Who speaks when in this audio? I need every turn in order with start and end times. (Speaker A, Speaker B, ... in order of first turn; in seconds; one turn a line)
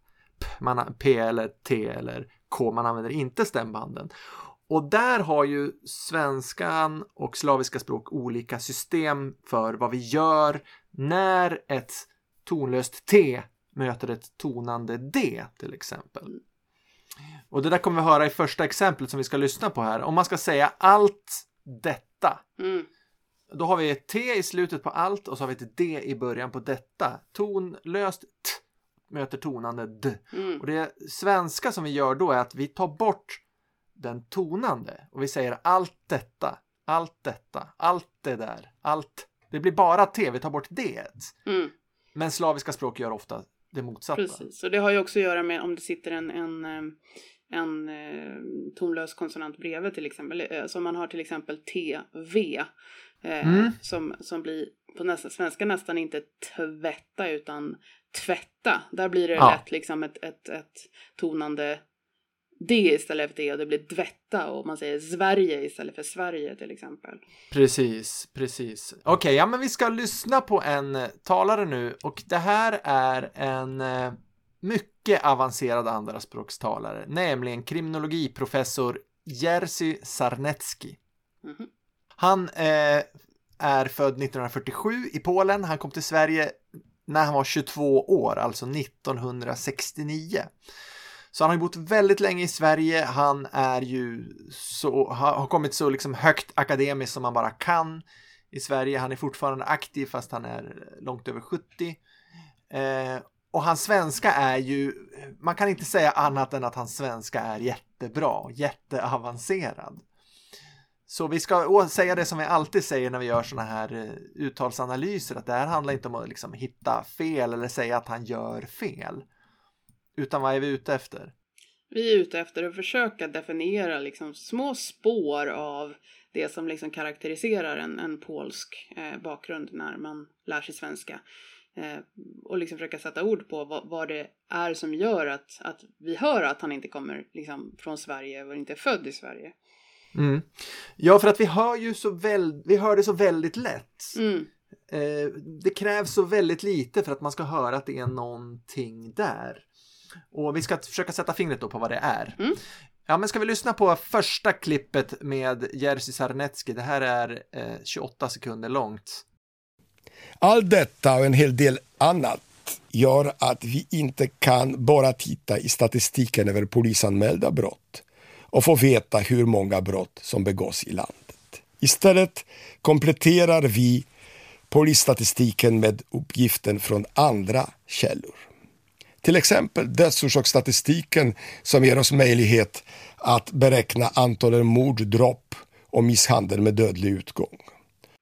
Speaker A: 0.4-16.3
Speaker A: 17.5-22.4
Speaker B: 22.6-22.9
Speaker A: 23.5-33.4
Speaker B: 30.3-30.6
Speaker A: 34.0-41.3
Speaker B: 41.5-41.7
Speaker A: 42.1-44.4
Speaker B: 44.1-47.0
Speaker B: 47.5-52.7
Speaker B: 53.2-61.8
Speaker A: 53.4-53.7
Speaker A: 59.4-59.6
Speaker B: 62.6-67.2
Speaker A: 67.5-81.0
Speaker B: 81.4-81.7
Speaker A: 82.2-83.1
Speaker A: 83.6-90.5
Speaker A: 91.3-102.0
Speaker A: 102.7-110.0
Speaker A: 111.1-119.2
Speaker A: 120.2-121.3
Speaker B: 121.9-131.2
Speaker B: 131.7-139.5
Speaker A: 140.1-144.2
Speaker B: 144.1-144.5
Speaker A: 144.9-149.6
Speaker A: 150.3-152.4
Speaker A: 153.1-159.2
Speaker C: 160.4-174.1
Speaker C: 174.7-178.5
Speaker C: 179.2-187.7